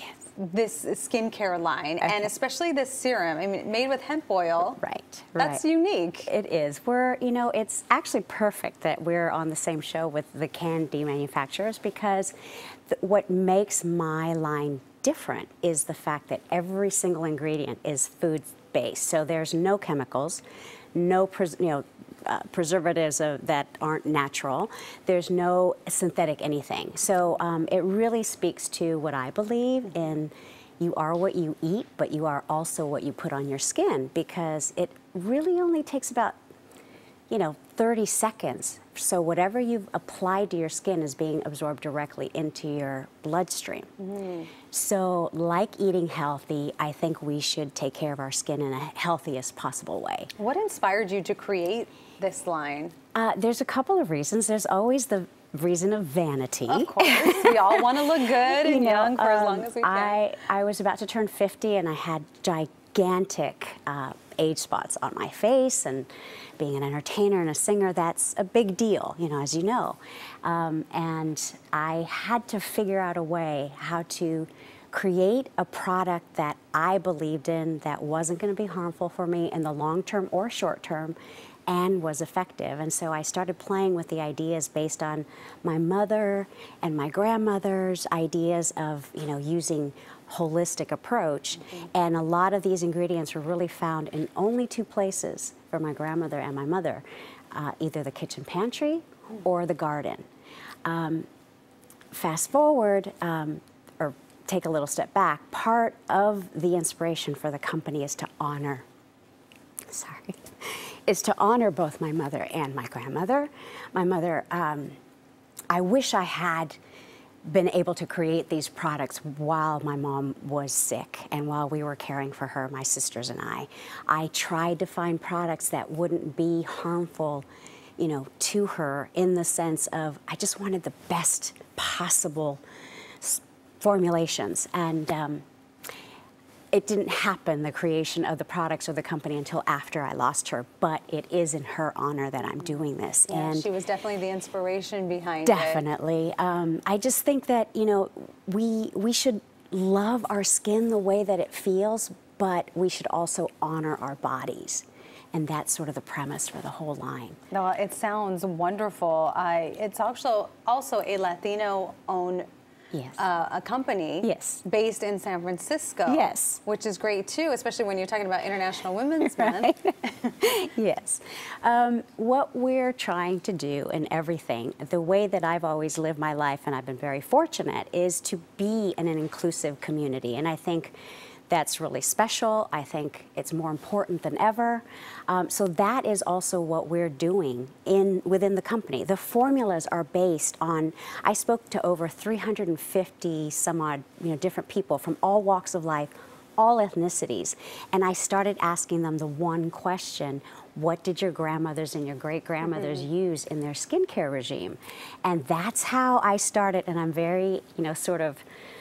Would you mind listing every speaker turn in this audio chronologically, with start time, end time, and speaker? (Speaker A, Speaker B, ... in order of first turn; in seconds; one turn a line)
Speaker A: 0.3-4.8
Speaker B: 2.0-2.3
Speaker B: 4.8-5.6
Speaker A: 5.4-6.3
Speaker B: 6.3-12.3
Speaker B: 12.9-20.4
Speaker B: 20.9-36.4
Speaker B: 37.3-43.9
Speaker A: 44.0-44.5
Speaker B: 44.7-50.3
Speaker A: 50.4-53.0
Speaker B: 53.1-66.1
Speaker A: 56.7-60.2
Speaker B: 66.6-100.2
Speaker B: 100.8-101.3
Speaker B: 102.1-108.8
Speaker B: 109.9-114.9
Speaker B: 115.7-116.8
Speaker B: 117.5-127.5
Speaker B: 128.0-132.6
Speaker B: 133.2-135.4
Speaker B: 136.7-143.7
Speaker A: 143.3-145.8
Speaker B: 145.4-157.4
Speaker A: 157.5-162.5
Speaker B: 162.9-163.2
Speaker A: 163.2-169.8
Speaker B: 164.2-164.6
Speaker B: 166.1-166.6
Speaker B: 169.2-180.9
Speaker B: 181.5-208.4